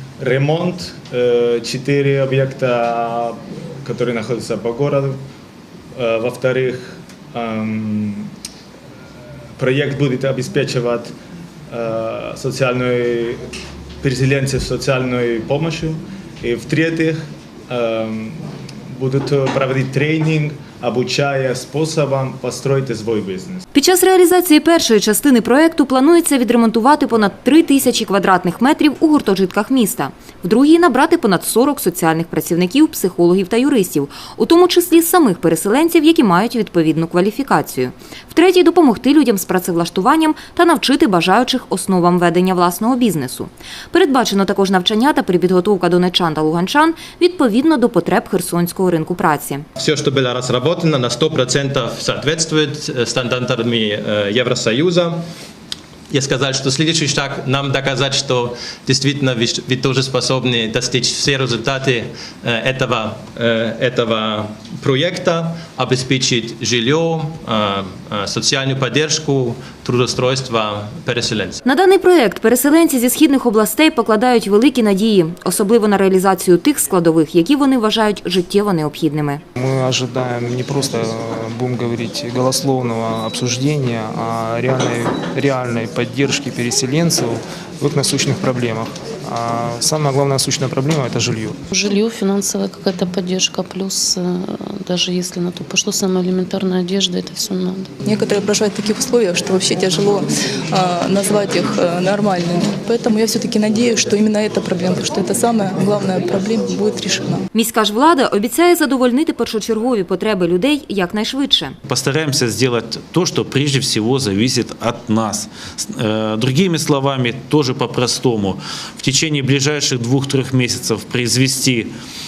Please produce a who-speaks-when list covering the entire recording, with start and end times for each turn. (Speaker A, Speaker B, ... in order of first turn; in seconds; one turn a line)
Speaker A: 0.2-5.2
Speaker A: 5.9-8.3
Speaker A: 9.6-11.1
Speaker A: 11.7-13.4
Speaker A: 14.0-23.6
Speaker B: 23.7-49.6
Speaker C: 49.8-55.2
Speaker C: 56.1-71.6
Speaker B: 71.7-79.4
Speaker D: 79.6-91.6
Speaker E: 91.7-97.9
Speaker F: 98.0-107.4
Speaker B: 107.5-111.8
Speaker G: 111.9-121.9